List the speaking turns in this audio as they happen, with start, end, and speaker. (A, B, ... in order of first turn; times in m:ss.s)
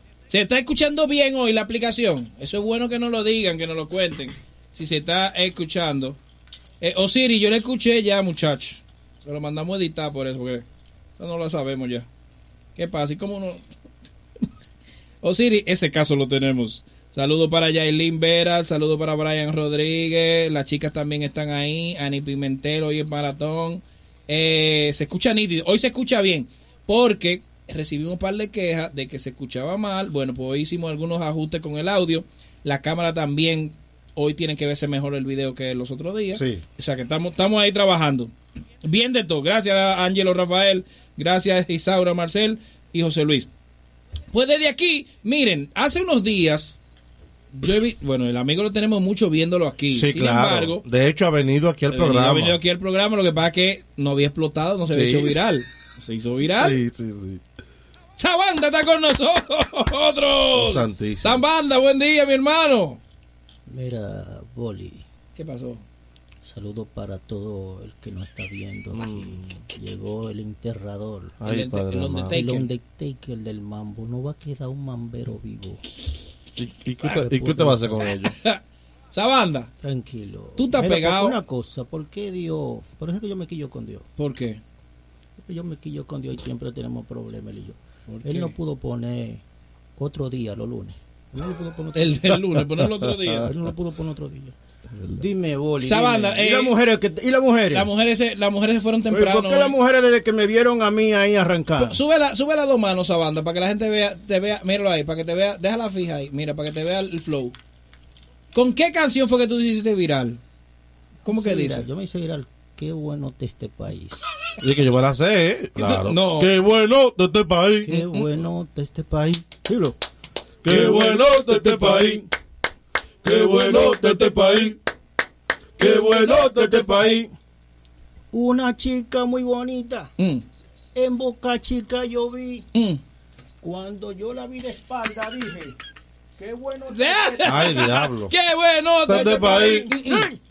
0:00.3-0:06.2 A
0:06.8-0:10.6 A
0:11.2-0:12.1 A
0:12.8-0:13.6 A
0:15.2-0:38.3 A
0:36.4-0:36.6 B
0:38.8-0:43.5 A
0:44.3-0:46.8 A
0:47.5-0:50.8 A
0:49.9-0:52.6 B
0:51.9-0:56.8 A
0:54.9-0:55.4 B
0:56.5-0:57.4 B
0:58.2-1:03.0 A
1:00.6-1:01.4 B
1:03.7-1:05.0 C
1:05.4-1:05.8 A
1:06.4-1:11.4 C
1:08.9-1:09.4 B
1:11.4-1:12.4 B
1:11.4-1:12.7 A
1:12.3-1:15.8 C
1:16.6-1:18.4 B
1:17.1-1:18.1 C
1:18.0-1:18.6 A
1:19.1-1:19.7 A
1:19.8-1:24.0 C
1:20.6-1:21.4 A
1:24.2-1:24.6 A
1:25.5-1:29.4 C
1:28.1-1:28.5 A
1:30.0-1:32.4 C
1:32.0-1:33.5 A
1:32.8-1:33.2 B
1:33.4-1:34.5 C
1:35.1-1:37.9 C
1:35.8-1:36.7 A
1:37.7-1:39.8 A
1:39.1-1:42.0 C
1:41.8-1:47.6 A
1:48.5-1:50.4 A
1:51.2-1:51.8 A
1:51.3-1:54.3 C
1:54.6-1:58.0 B
1:55.8-1:56.5 A
1:57.8-2:00.0 C
1:57.9-1:58.3 A
2:00.6-2:02.2 B
2:00.6-2:02.3 C
2:03.2-2:04.8 B
2:03.2-2:04.8 C
2:05.8-2:07.2 B
2:05.8-2:07.3 C
2:08.3-2:10.1 C
2:10.2-2:10.4 A
2:11.0-2:12.7 C
2:12.7-2:13.0 A
2:13.6-2:15.8 C
2:16.4-2:18.0 C
2:16.9-2:20.3 A
2:17.4-2:18.3 B
2:19.1-2:19.9 B
2:19.1-2:20.4 C